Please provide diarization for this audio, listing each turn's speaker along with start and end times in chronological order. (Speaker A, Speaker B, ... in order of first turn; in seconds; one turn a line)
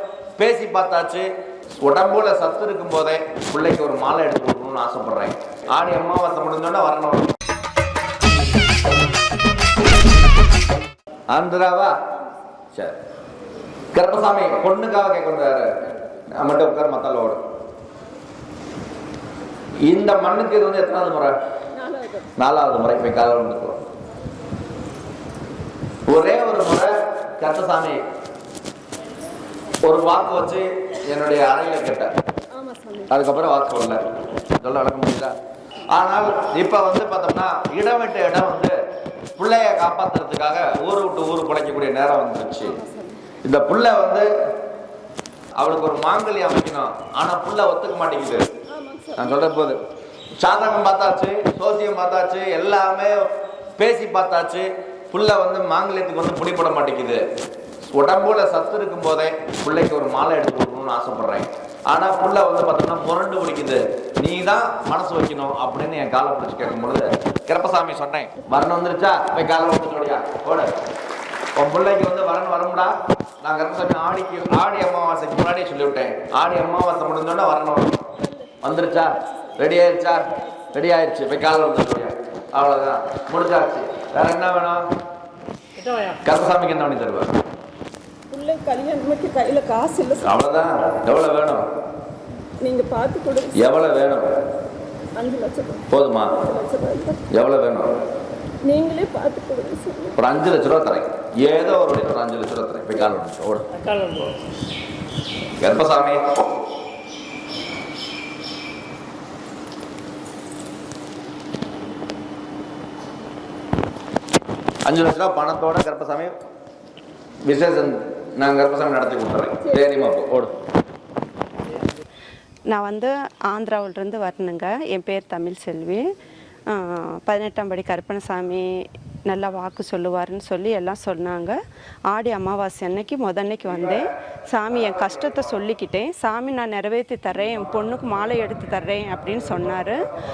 Speaker A: 0.4-7.3
Speaker A: 11.3-11.9
Speaker A: 13.9-15.7
Speaker A: 16.3-17.4
Speaker A: 19.9-21.4
Speaker B: 21.8-22.3
Speaker A: 22.4-23.8
Speaker A: 26.1-28.0
Speaker A: 29.8-32.1
Speaker B: 32.5-33.1
Speaker A: 33.1-34.0
Speaker A: 34.6-35.3
Speaker A: 35.9-38.8
Speaker A: 39.4-42.8
Speaker B: 42.6-43.2
Speaker A: 43.4-44.3
Speaker A: 45.5-48.5
Speaker B: 48.7-49.3
Speaker A: 49.1-49.8
Speaker A: 50.4-53.2
Speaker A: 53.8-57.2
Speaker A: 57.9-70.7
Speaker A: 71.5-78.0
Speaker A: 78.6-84.8
Speaker B: 79.2-80.7
Speaker A: 86.0-87.3
Speaker B: 88.3-90.4
Speaker A: 90.2-91.6
Speaker B: 92.6-93.6
Speaker A: 93.5-94.3
Speaker B: 95.2-95.9
Speaker A: 95.9-96.3
Speaker B: 96.4-97.2
Speaker A: 97.3-97.9
Speaker B: 98.6-100.2
Speaker A: 100.2-104.2
Speaker A: 105.6-106.2
Speaker A: 114.8-116.3
Speaker A: 117.4-120.5
Speaker C: 122.7-126.0
Speaker C: 126.7-128.7
Speaker C: 129.2-131.6
Speaker C: 132.1-140.0